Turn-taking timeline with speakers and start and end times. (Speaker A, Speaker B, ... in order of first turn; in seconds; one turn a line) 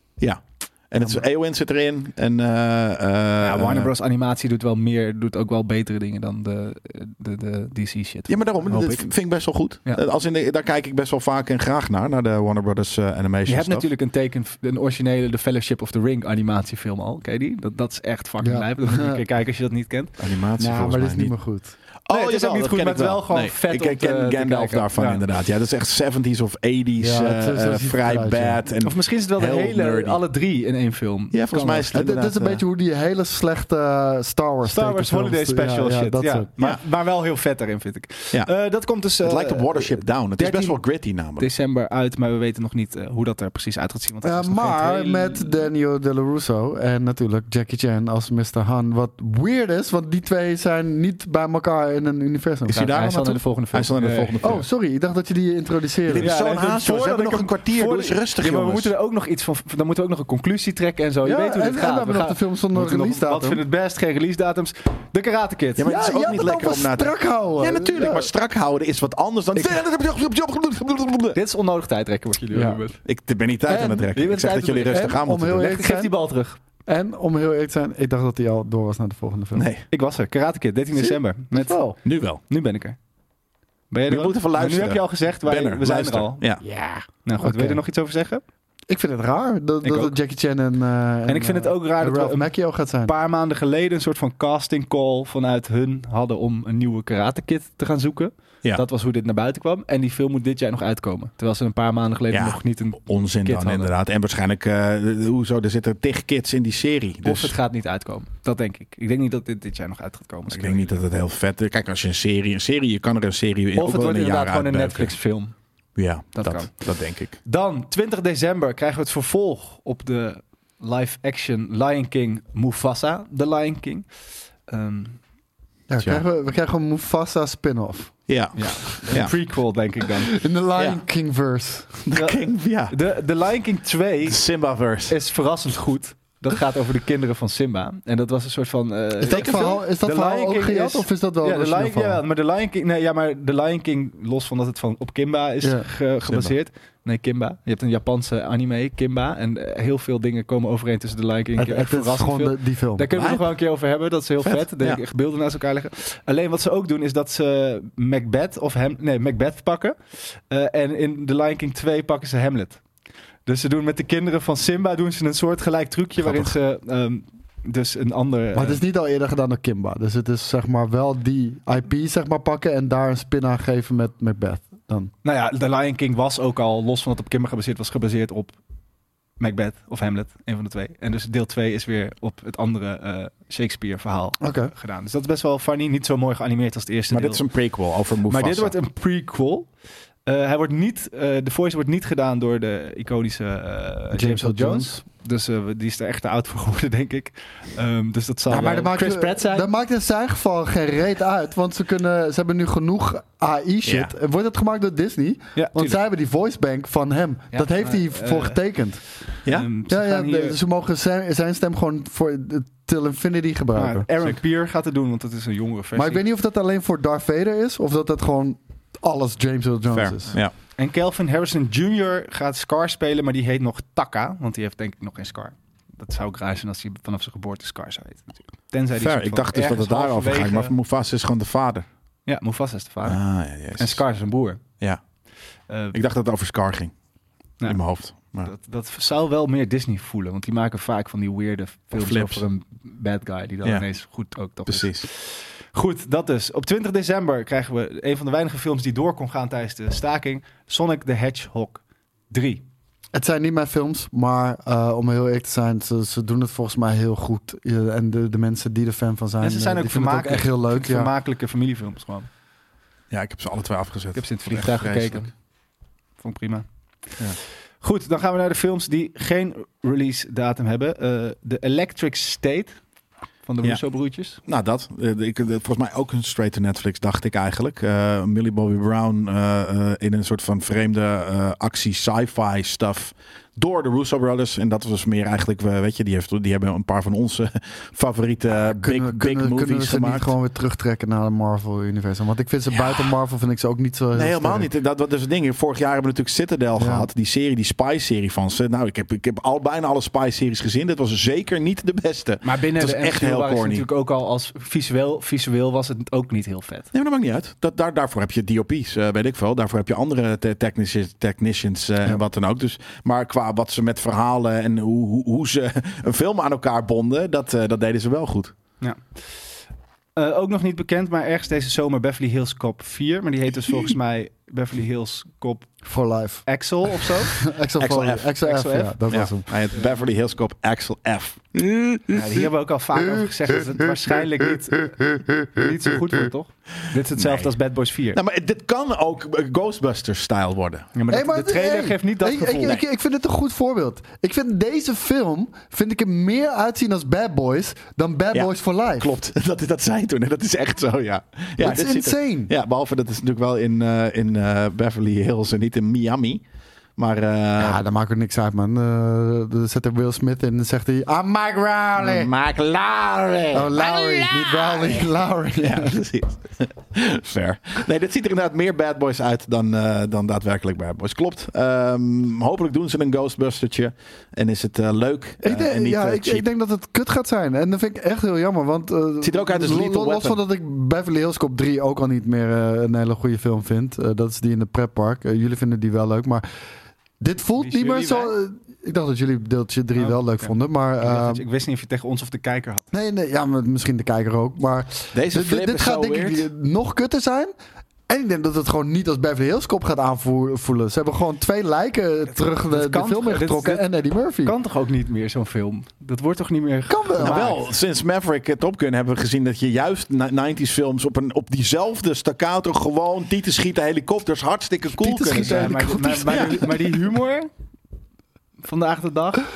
Speaker A: 0.2-3.9
Speaker B: 3.4-9.1
Speaker A: 8.3-13.9
Speaker B: 13.5-20.1
Speaker C: 18.4-19.2
Speaker A: 20.2-21.4
Speaker C: 20.6-21.8
Speaker A: 22.1-30.2
Speaker B: 22.1-25.2
Speaker C: 27.0-28.6
Speaker B: 28.8-32.0
Speaker A: 31.3-32.6
Speaker C: 31.9-36.5
Speaker B: 34.6-40.8
Speaker A: 39.2-41.5
Speaker B: 41.4-45.7
Speaker C: 44.2-52.9
Speaker A: 52.7-54.7
Speaker B: 52.7-54.6
Speaker C: 54.4-56.3
Speaker A: 56.1-58.9
Speaker B: 56.2-65.9
Speaker C: 61.2-63.6
Speaker A: 65.8-71.4
Speaker C: 65.8-68.3
Speaker B: 71.3-73.0
Speaker C: 72.5-72.8
Speaker A: 73.0-75.7
Speaker C: 73.7-74.1
Speaker B: 74.1-76.6
Speaker C: 74.9-76.1
Speaker C: 76.9-79.7
Speaker A: 79.5-79.8
Speaker B: 79.9-83.0
Speaker C: 81.0-82.0
Speaker A: 82.0-82.4
Speaker B: 83.9-86.5
Speaker A: 84.1-86.7
Speaker C: 86.6-87.8
Speaker B: 87.2-88.4
Speaker C: 88.9-93.1
Speaker B: 89.8-90.2
Speaker B: 91.3-92.5
Speaker B: 93.0-103.9
Speaker A: 102.3-107.5
Speaker B: 107.2-111.0
Speaker A: 110.5-115.2
Speaker B: 113.8-115.5
Speaker A: 116.0-117.4
Speaker B: 116.3-124.1
Speaker B: 124.7-125.2
Speaker C: 125.9-128.3
Speaker A: 126.0-126.2
Speaker A: 128.3-129.3
Speaker B: 128.6-130.3
Speaker C: 130.2-132.0
Speaker A: 130.8-131.0
Speaker A: 132.1-132.9
Speaker B: 132.1-134.4
Speaker A: 134.2-135.2
Speaker B: 135.1-162.8
Speaker C: 139.2-142.2
Speaker A: 139.3-139.8
Speaker C: 145.6-145.9
Speaker A: 146.3-146.5
Speaker C: 151.6-153.1
Speaker A: 153.1-153.5
Speaker A: 154.4-155.0
Speaker B: 163.5-168.8
Speaker C: 168.6-175.1
Speaker B: 175.2-178.6
Speaker B: 179.4-187.4
Speaker C: 184.4-184.7
Speaker A: 187.1-188.8
Speaker B: 188.3-189.7
Speaker B: 190.3-199.7
Speaker C: 194.1-195.0
Speaker C: 198.5-209.1
Speaker A: 203.8-204.1
Speaker B: 205.6-206.0
Speaker B: 207.5-208.6
Speaker B: 209.5-210.6
Speaker C: 209.9-214.1
Speaker B: 213.8-216.2
Speaker C: 215.9-220.3
Speaker A: 219.9-220.5
Speaker B: 220.8-230.7
Speaker A: 229.0-231.9
Speaker B: 232.3-233.2
Speaker A: 233.0-234.0
Speaker B: 233.8-234.6
Speaker B: 235.7-236.0
Speaker A: 235.9-236.9
Speaker A: 237.6-238.5
Speaker B: 238.4-252.7
Speaker A: 241.9-242.4
Speaker A: 244.7-245.1
Speaker C: 253.1-261.1
Speaker B: 259.4-262.3
Speaker A: 263.1-265.3
Speaker B: 264.1-265.3
Speaker B: 266.2-266.7
Speaker B: 267.8-272.8
Speaker B: 273.4-274.4
Speaker A: 274.4-290.3
Speaker C: 288.6-294.7
Speaker A: 292.8-293.1
Speaker A: 294.1-303.9
Speaker C: 296.8-297.1
Speaker B: 302.4-306.9
Speaker A: 306.9-318.5
Speaker B: 318.8-319.4
Speaker B: 320.2-325.8
Speaker C: 325.9-326.6
Speaker B: 326.5-327.4
Speaker C: 327.3-329.5
Speaker A: 327.8-328.3
Speaker B: 328.4-329.0
Speaker A: 329.1-332.1
Speaker B: 332.1-338.2
Speaker A: 337.1-337.5
Speaker A: 338.1-340.9
Speaker B: 340.9-342.8
Speaker C: 341.1-349.1
Speaker A: 348.3-356.4
Speaker C: 351.6-352.5
Speaker A: 357.0-357.8
Speaker C: 357.6-362.3
Speaker A: 362.0-365.0
Speaker C: 363.5-366.0
Speaker A: 365.6-376.5
Speaker C: 375.4-386.4
Speaker A: 379.2-380.4
Speaker C: 387.2-391.4
Speaker B: 387.6-388.4
Speaker B: 390.0-392.9
Speaker C: 392.9-397.5
Speaker A: 395.1-396.5
Speaker C: 398.1-404.6
Speaker B: 402.7-403.9
Speaker B: 404.4-407.7
Speaker C: 406.9-407.6
Speaker A: 407.2-416.6
Speaker C: 414.9-416.7
Speaker B: 415.3-417.5
Speaker B: 418.6-419.5